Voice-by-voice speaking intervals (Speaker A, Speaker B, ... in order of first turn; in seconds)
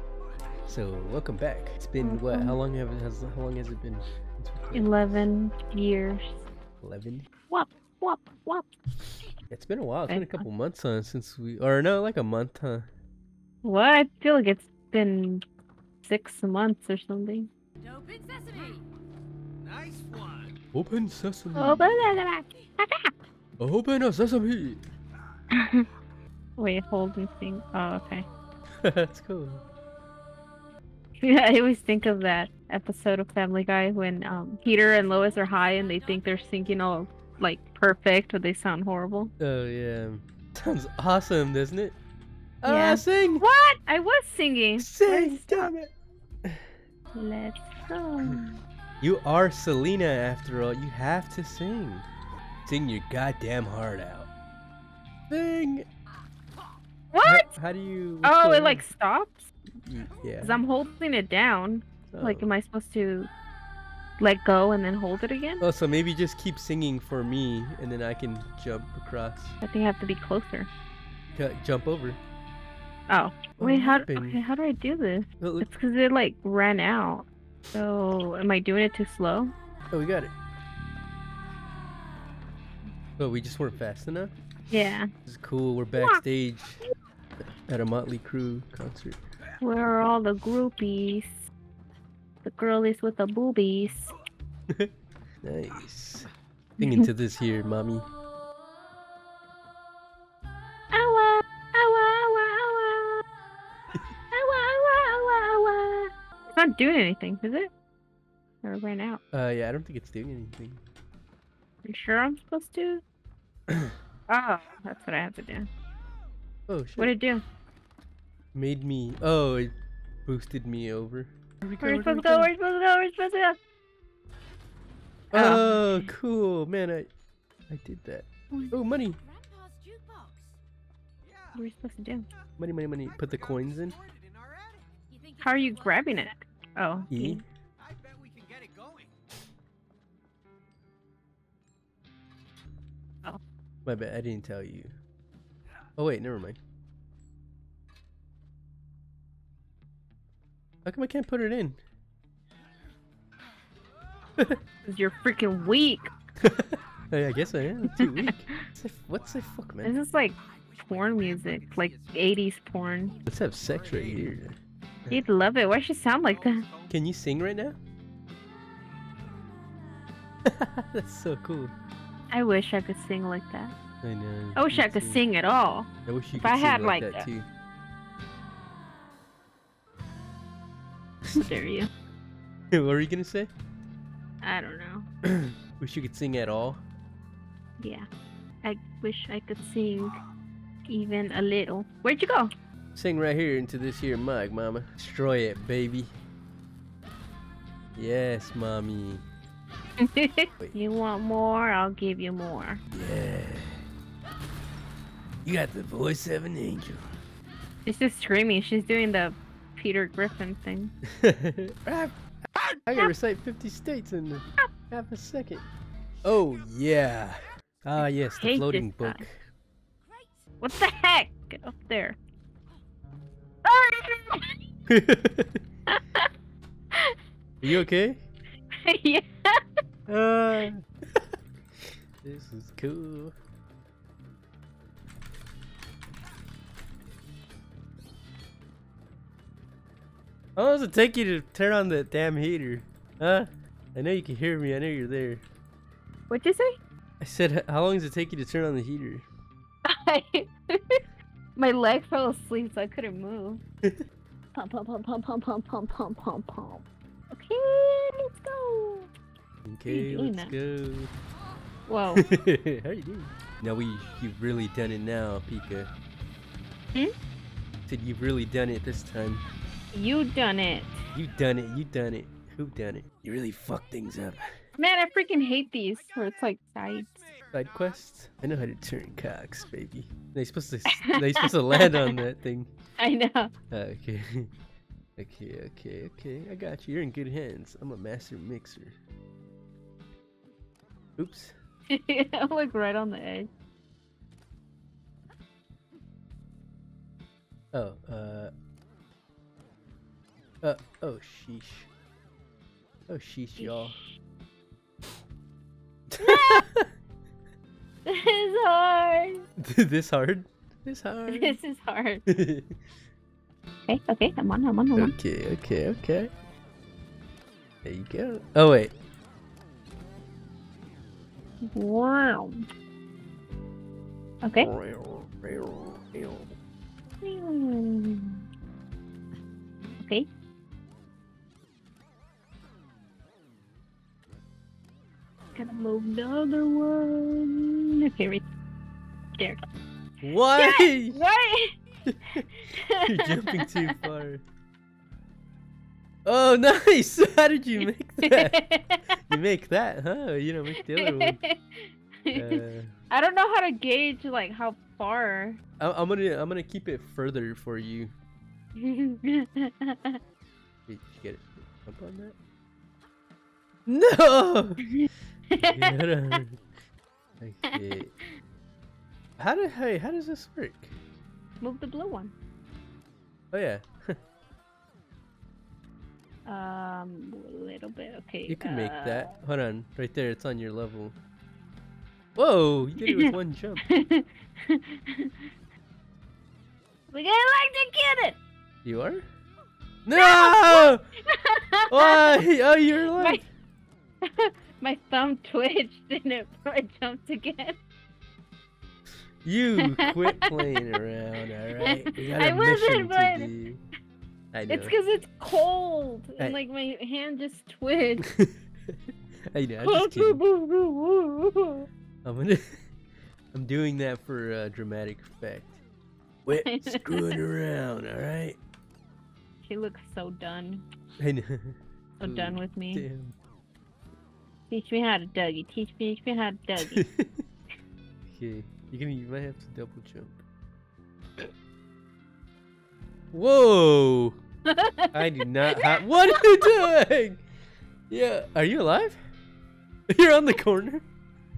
Speaker A: 0.7-5.3, 6.8-7.3, 9.5-12.9, 20.7-22.2, 23.6-24.8, 28.8-29.6, 39.4-42.0, 42.6-43.4, 44.8-45.9, 46.4-46.7, 49.0-52.1, 52.6-54.3, 55.3-55.9, 57.2-58.8, 59.8-60.6, 62.1-62.5, 65.6-69.5, 71.3-72.2, 73.6-74.4, 75.4-75.7, 79.9-80.3, 83.2-84.3, 85.2-86.8, 87.7-89.2, 95.4-98.1, 109.3-110.8, 116.7-117.1, 118.5-119.7, 120.2-122.5, 125.3-127.1, 127.7-129.2, 132.6-133.9, 137.1-137.4, 143.8-144.9, 146.0-146.6, 150.8-151.8, 156.4-159.9, 163.2-164.6, 166.9-167.8, 170.4-171.7, 174.0-175.2, 176.1-177.5, 182.7-183.5, 185.2-186.8, 192.9-196.1, 197.9-199.2, 202.9-203.8, 205.4-207.1, 211.1-212.1, 212.9-215.6, 216.2-219.5, 224.9-225.6, 227.6-228.2, 230.1-231.3, 232.2-233.3, 240.6-245.4, 247.2-249.3, 259.6-261.1, 262.1-265.9, 267.9-269.4, 271.1-274.6, 277.5-282.7, 283.7-284.5, 285.2-289.0, 291.2-291.5, 297.7-298.5, 300.6-301.9, 303.1-304.0, 306.1-306.9, 309.6-311.6, 312.3-312.8, 314.9-316.3, 317.8-318.9, 324.6-326.5, 340.2-341.2, 342.1-342.4, 343.0-344.4, 346.2-348.6, 349.3-351.4, 352.3-352.9, 355.8-358.1, 360.9-362.4, 363.9-364.9, 365.6-366.6, 367.4-368.1, 369.4-370.9, 373.5-374.2, 378.5-381.1, 382.4-383.8, 388.8-389.2, 390.1-391.1, 391.9-393.4, 399.4-403.8, 404.5-404.9, 408.4-408.9, 409.5-410.4, 412.2-412.8, 413.5-415.8, 416.4-418.6, 421.2-423.3, 426.9-427.4, 428.3-430.4, 433.3-434.4, 435.1-437.4, 438.1-439.2, 440.1-441.0
Speaker B: 2.0-2.6, 4.7-6.4, 7.5-8.7, 10.1-10.4, 13.6-15.4, 16.0-17.5, 21.5-23.1, 25.5-25.9, 26.6-28.2, 31.2-39.3, 42.6-45.7, 47.1-48.6, 57.1-57.5, 58.2-59.5, 60.4-63.3, 64.2-65.6, 69.6-70.7, 73.1-79.5, 84.7-85.1, 86.0-86.2, 89.6-91.5, 92.4-94.1, 96.8-97.1, 100.9-103.2, 104.3-107.7, 108.6-109.2, 111.8-113.0, 114.3-115.7, 117.0-117.4, 121.8-123.6, 125.3-126.0, 131.5-132.3, 135.4-137.4, 154.8-156.1, 157.9-158.3, 159.8-163.2, 165.1-166.6, 172.3-173.7, 174.5-175.9, 176.4-177.3, 181.3-181.9, 184.4-185.1, 187.8-188.1, 188.6-190.2, 190.8-192.5, 200.0-202.8, 207.8-210.9, 218.3-219.2, 220.6-222.2, 223.6-224.5, 225.9-226.3, 228.8-229.6, 246.3-246.8, 249.8-251.0, 251.6-253.6, 254.5-259.1, 259.9-260.5, 261.9-262.2, 269.9-271.1, 274.8-277.3, 280.9-282.2, 283.0-283.5, 291.9-293.5, 303.6-304.0, 306.2-306.6, 308.1-309.4, 311.3-312.2, 313.9-315.1, 321.7-322.6, 324.4-324.7, 327.2-328.4, 330.0-330.2, 335.5-338.4, 340.6-341.7, 342.7-344.0, 348.2-349.2, 350.8-355.6, 358.7-360.2, 364.9-366.3, 371.6-372.3, 376.4-379.3, 383.0-383.3, 383.9-385.3, 387.1-388.4, 390.1-392.4, 393.1-393.4, 394.2-397.8, 399.8-401.0, 401.8-403.5, 404.7-408.3, 409.8-411.9, 416.6-417.4, 419.6-420.8, 422.2-423.1, 424.7-427.0, 434.7-436.9
Speaker C: 17.8-18.8, 35.0-36.3, 129.0-130.6, 135.1-136.3, 220.1-220.3
Speaker D: 19.6-20.5, 131.2-131.6, 133.0-134.9, 137.8-139.1, 160.5-162.1, 163.7-164.2, 166.3-166.9